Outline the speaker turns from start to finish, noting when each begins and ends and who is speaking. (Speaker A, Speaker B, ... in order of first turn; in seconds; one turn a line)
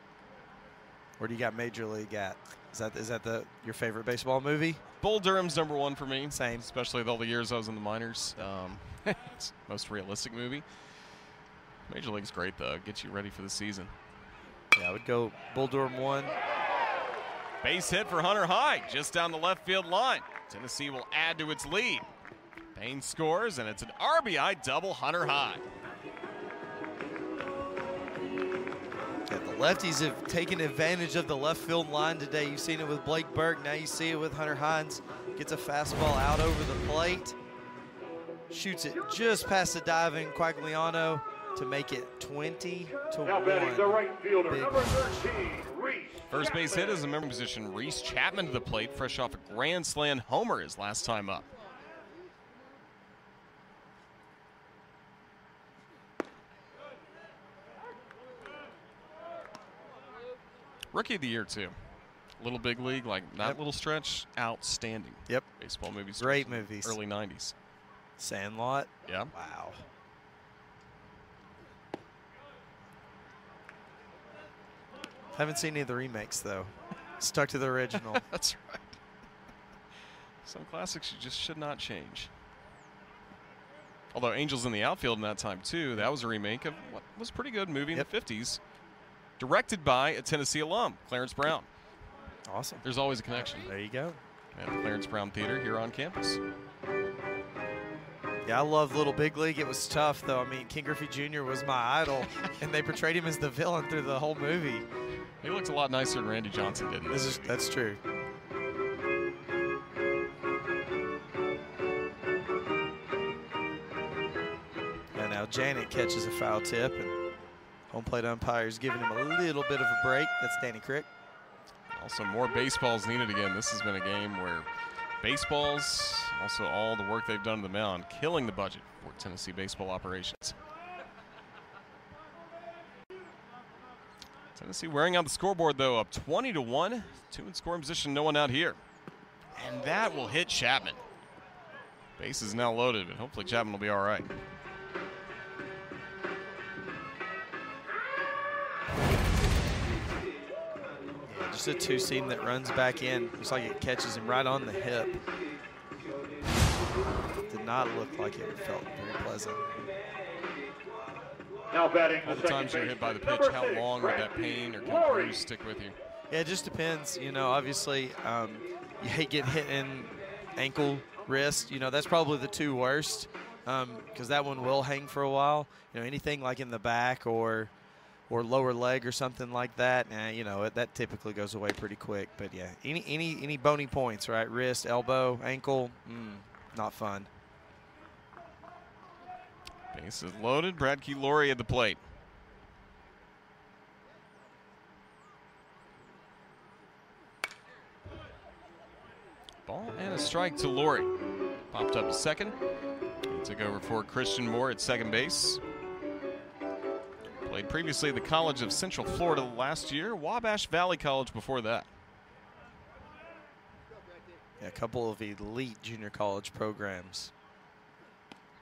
Speaker A: 1.2-4.8
Speaker B: 5.0-10.6
Speaker A: 6.3-6.7
Speaker B: 11.9-13.9
Speaker A: 14.7-16.4
Speaker B: 17.6-22.1
Speaker B: 22.7-25.6
Speaker A: 29.3-37.4
Speaker A: 38.5-45.3
Speaker C: 43.2-47.1
Speaker B: 46.3-51.5
Speaker B: 60.9-61.7
Speaker B: 62.4-67.5
Speaker A: 66.2-67.0
Speaker A: 68.2-69.8
Speaker B: 69.1-69.3
Speaker A: 75.3-78.2
Speaker B: 78.1-78.8
Speaker B: 80.4-82.3
Speaker B: 84.1-88.6
Speaker B: 89.4-91.7
Speaker A: 92.5-92.8
Speaker B: 92.8-93.7
Speaker A: 93.5-94.2
Speaker B: 94.5-96.4
Speaker A: 98.4-104.9
Speaker B: 105.4-107.6
Speaker A: 107.1-108.0
Speaker A: 115.1-117.2
Speaker A: 117.9-121.1
Speaker B: 121.9-124.7
Speaker B: 125.2-130.6
Speaker B: 134.5-138.8
Speaker B: 139.5-141.0
Speaker B: 142.2-144.3
Speaker A: 151.2-155.2
Speaker A: 157.5-159.7
Speaker C: 161.7-165.4
Speaker B: 162.2-165.9
Speaker A: 166.3-177.7
Speaker A: 178.3-187.3
Speaker B: 189.9-192.0
Speaker B: 199.7-201.1
Speaker B: 201.7-202.6
Speaker B: 203.3-205.6
Speaker B: 207.4-211.9
Speaker A: 214.6-217.3